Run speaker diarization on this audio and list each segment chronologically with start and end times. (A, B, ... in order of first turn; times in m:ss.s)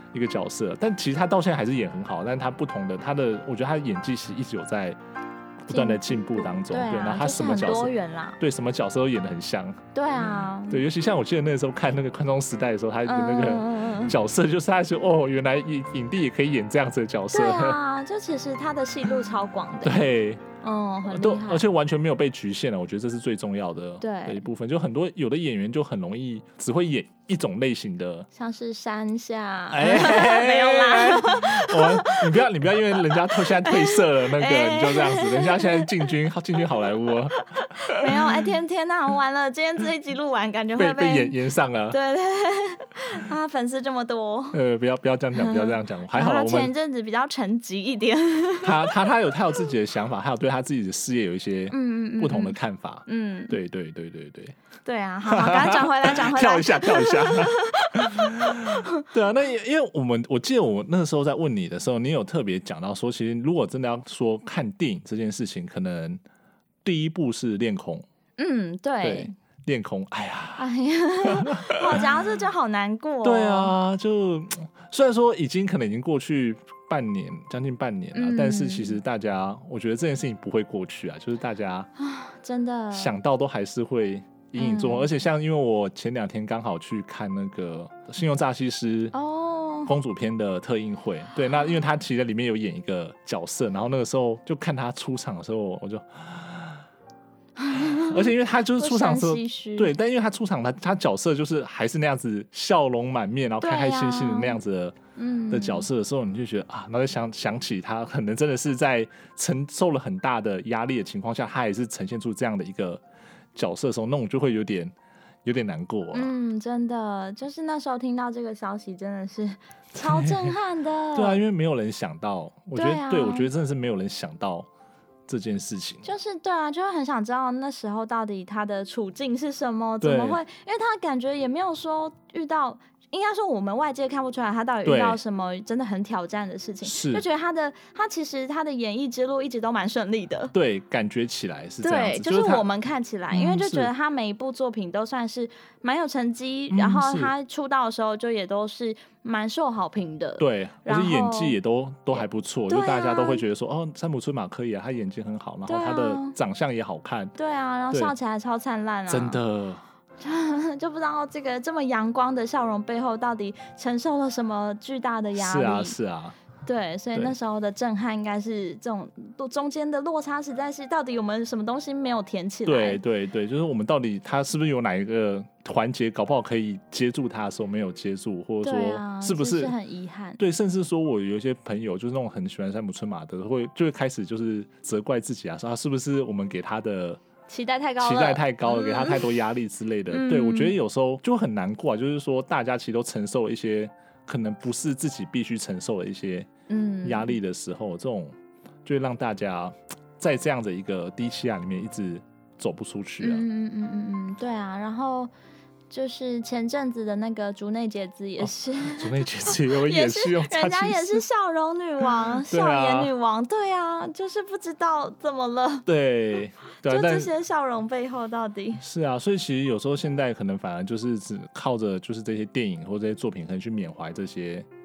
0:00.1-0:05.0 A
0:05.6-0:17.8 A
0:05.7-0:08.4 B
0:09.9-0:10.8 B
0:13.0-0:14.2 B
0:17.3-0:20.1 B
0:19.8-0:20.4 A
0:20.6-0:21.6 B
0:21.1-0:28.3 A
0:24.0-0:24.4 B
0:28.3-0:36.1 B
0:29.7-0:38.5 A
0:37.4-0:41.3 B
0:40.8-0:42.0 A
0:41.9-0:44.6 B
0:44.5-0:46.7 A
0:45.3-0:49.0 B
0:48.6-0:54.6 A
0:51.7-0:53.6 B
0:54.8-0:59.0 B
0:55.3-1:06.2 A
1:06.8-1:08.0 A
1:08.4-1:09.3 B
1:09.0-1:10.7 A
1:10.6-1:13.7 B
1:11.2-1:12.1 A
1:13.2-1:21.9 A
1:18.1-1:19.0 B
1:22.0-1:23.2 B
1:22.9-1:29.1 A
1:24.6-1:25.1 B
1:29.1-1:29.9 B
1:29.8-1:36.8 A
1:37.6-1:39.9 B
1:37.7-1:45.0 A
1:43.6-1:44.6 B
1:45.2-1:45.9 B
1:45.5-1:53.0 A
1:53.5-1:54.9 A
1:55.4-1:56.3 A
1:56.1-2:01.4 B
2:00.0-2:00.5 A
2:01.1-2:04.7 A
2:02.8-2:03.5 B
2:05.3-2:06.0 A
2:06.0-2:20.5 B
2:10.0-2:10.4 A
2:14.8-2:15.2 A
2:16.8-2:17.2 A
2:20.5-2:22.6 A
2:21.8-2:31.6 B
2:23.3-2:23.9 A
2:26.7-2:27.3 A
2:30.4-2:37.3 A
2:32.1-2:33.4 B
2:35.7-2:36.4 B
2:37.4-2:39.4 B
2:39.1-2:39.8 A
2:40.2-2:45.9 B
2:45.4-2:46.4 A
2:46.6-2:53.0 B
2:52.6-2:59.7 A
2:58.6-3:00.4 B
3:00.4-3:07.2 A
3:07.5-3:09.3 B
3:08.0-3:16.5 A
3:10.1-3:10.7 B
3:16.7-3:17.3 B
3:17.0-3:23.4 A
3:23.2-3:25.3 B
3:25.9-3:35.9 B
3:28.4-3:31.2 A
3:32.5-3:33.1 A
3:35.8-3:37.3 A
3:36.8-3:38.8 B
3:38.8-3:44.7 A